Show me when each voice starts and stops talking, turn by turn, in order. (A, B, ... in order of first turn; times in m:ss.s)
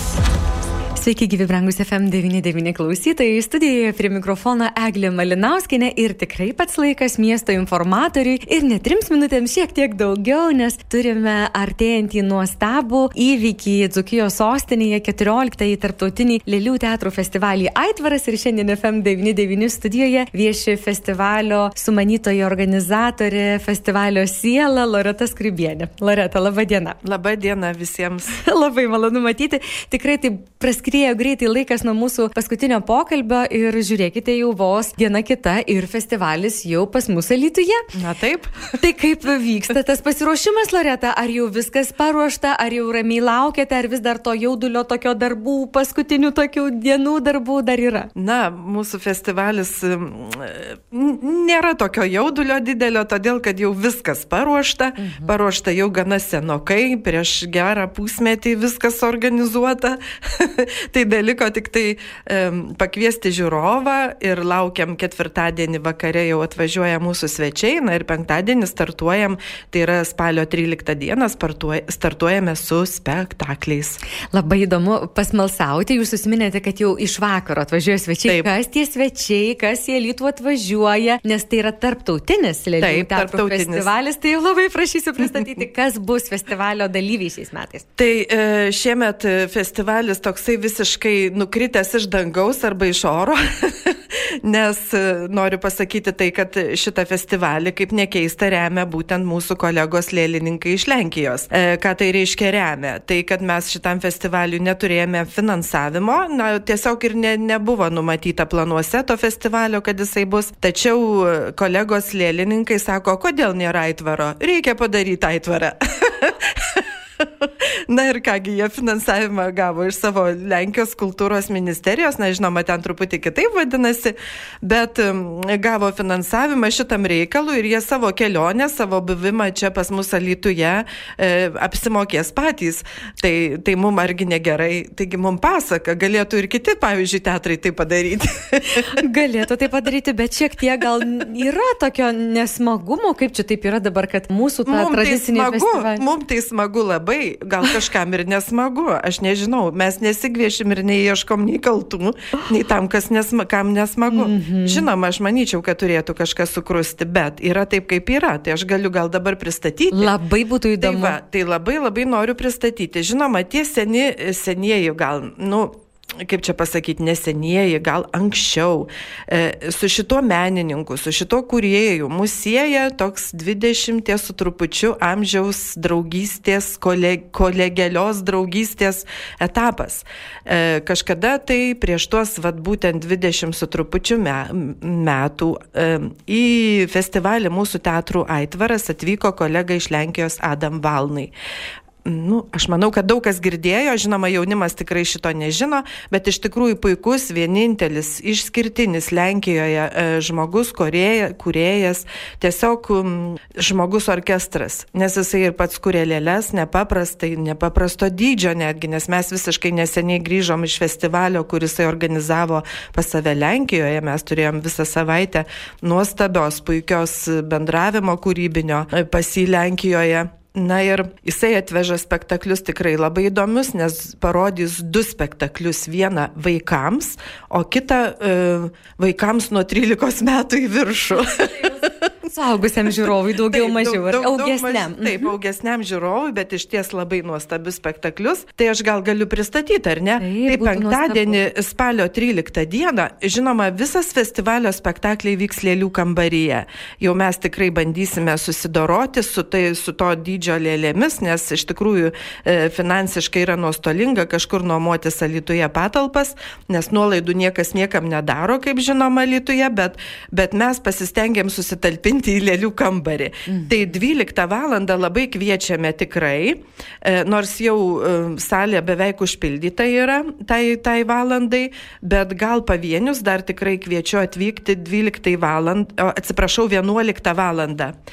0:01.0-0:27.0 A
0:27.0-0:28.4 B
0:28.3-0:37.8 A
0:37.9-0:38.8 B
0:38.8-0:48.1 A
0:48.2-1:14.0 B
0:55.0-0:55.3 A
1:14.3-1:27.9 A
1:22.8-1:23.9 B
1:28.0-2:18.9 B
2:18.8-2:26.1 A
2:24.7-2:40.1 B
2:34.1-2:34.9 A
2:39.9-2:41.2 A
2:40.8-3:11.3 B
3:12.0-3:51.9 B
3:52.3-3:55.3 A
3:53.5-4:37.9 B
4:00.2-4:01.4 A
4:23.5-4:23.7 A